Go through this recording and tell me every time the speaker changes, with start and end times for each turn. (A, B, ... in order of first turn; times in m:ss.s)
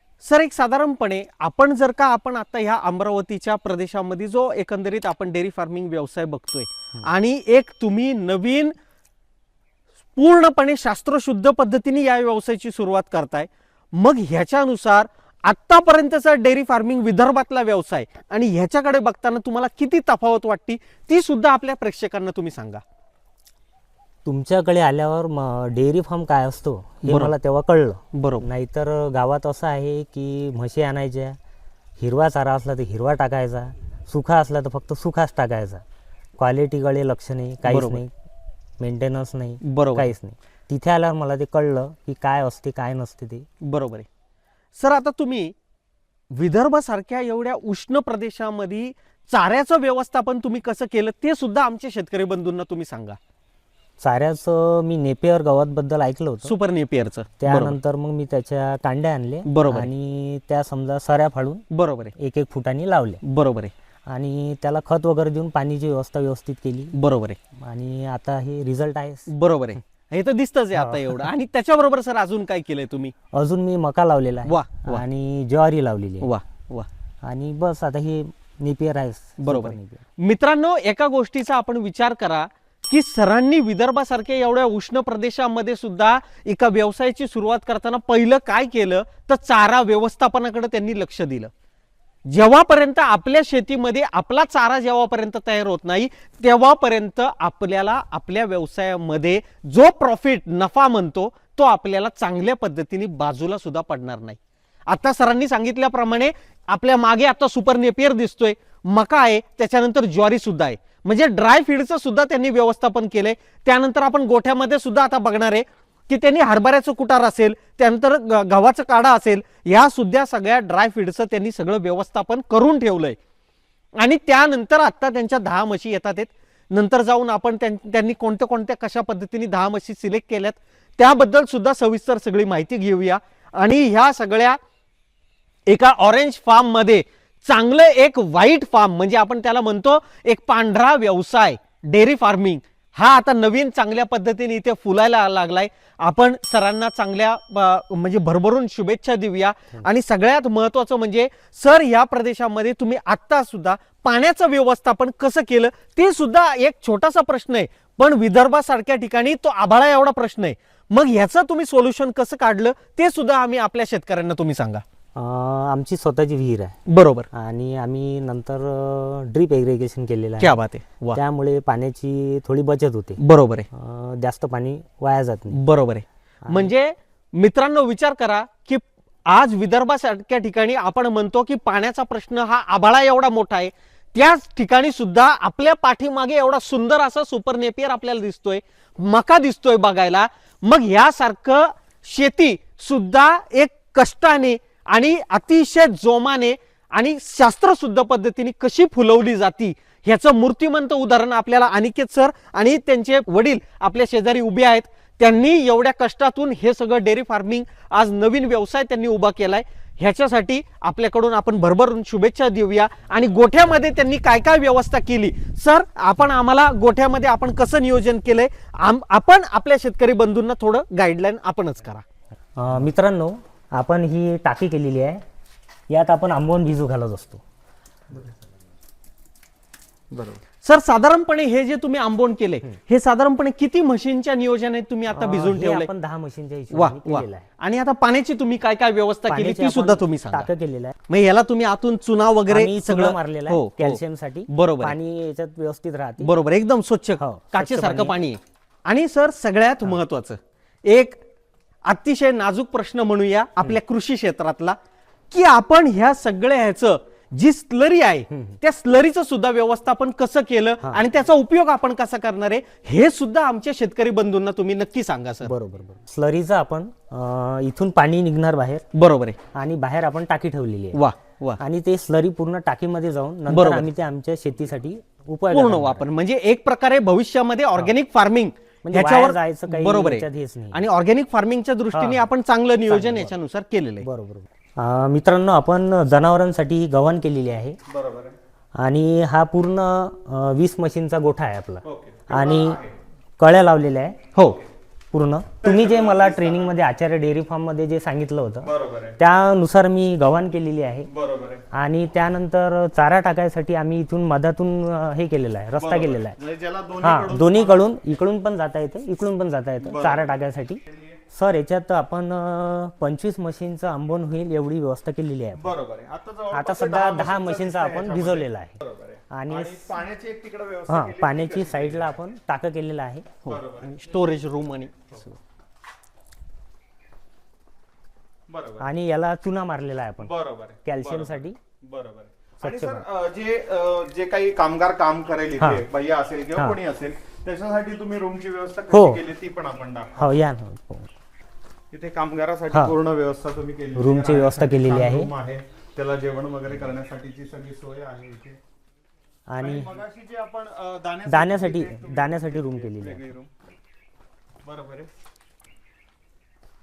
0:00.2-0:08.8 A
0:10.2-0:22.8 A
0:24.2-0:31.4 B
0:27.1-0:27.3 A
0:28.1-0:28.4 A
0:32.0-0:35.8 B
0:36.4-0:38.1 B
0:37.6-0:38.0 A
0:38.8-0:43.5 B
0:39.6-0:40.1 A
0:43.6-0:44.1 A
0:44.8-0:45.6 A
0:46.3-0:53.2 A
0:54.0-0:56.5 B
0:56.4-0:57.8 A
0:57.4-1:01.6 B
0:59.5-0:59.9 A
1:01.7-1:02.1 A
1:02.2-1:03.2 B
1:03.2-1:03.7 A
1:04.1-1:06.9 B
1:06.9-1:07.4 A
1:07.6-1:09.3 B
1:09.3-1:13.1 A
1:10.8-1:11.3 B
1:13.3-1:16.3 B
1:14.5-1:15.0 A
1:16.2-1:16.9 A
1:17.2-1:20.0 B
1:19.4-1:31.5 A
1:32.3-2:03.2 A
2:04.0-2:14.6 A
2:15.7-2:44.8 A
2:45.2-2:46.8 B
2:46.9-2:47.3 A
2:47.3-2:50.6 B
2:50.4-2:51.2 A
2:51.1-2:53.2 B
2:53.2-2:53.7 A
2:53.7-2:55.6 B
2:55.5-3:42.0 A
2:56.5-2:56.7 B
3:42.6-3:45.2 B
3:45.9-3:47.4 B
3:50.1-3:50.4 C
3:50.6-3:55.9 A
3:55.1-3:57.5 B
3:56.7-4:00.5 A
3:59.3-4:01.0 B
4:01.1-4:05.0 A
4:02.5-4:06.3 B
4:06.2-4:11.2 A
4:07.2-4:08.2 B
4:11.9-4:14.8 A
4:15.3-4:25.5 A
4:18.3-4:18.6 B
4:25.4-4:28.8 B
4:28.9-4:29.4 A
4:29.5-4:31.0 B
4:30.9-4:31.6 A
4:31.6-4:36.1 B
4:33.5-4:33.9 A
4:35.5-4:44.1 A
4:38.8-4:40.8 B
4:41.9-4:42.3 B
4:42.9-4:43.3 B
4:44.0-4:47.8 B
4:47.9-4:48.4 C
4:48.8-4:52.8 B
4:51.8-4:53.0 C
4:53.4-4:54.2 B
4:54.4-4:54.6 A
4:55.1-5:01.1 B
4:55.6-4:56.8 C
4:58.6-4:59.2 C
5:01.1-5:01.6 C
5:01.7-5:06.4 B
5:05.8-5:07.9 C
5:07.0-5:10.8 B
5:09.8-5:10.3 C
5:10.9-5:11.2 C
5:11.3-5:15.7 B
5:15.6-5:22.2 C
5:16.5-5:18.8 B
5:19.3-5:19.9 B
5:20.9-5:23.3 B
5:23.4-5:25.3 A
5:23.5-5:24.2 C
5:28.5-5:28.9 C
5:28.8-5:30.3 B
5:30.2-5:40.4 C
5:30.8-5:31.6 B
5:32.6-5:33.0 B
5:35.6-5:35.8 B
5:38.9-5:39.2 B
5:40.2-5:41.1 B
5:41.9-5:48.6 C
5:44.0-5:45.3 B
5:49.5-5:49.9 B
5:49.6-5:53.5 C
5:51.3-5:53.3 B
5:54.6-5:55.1 C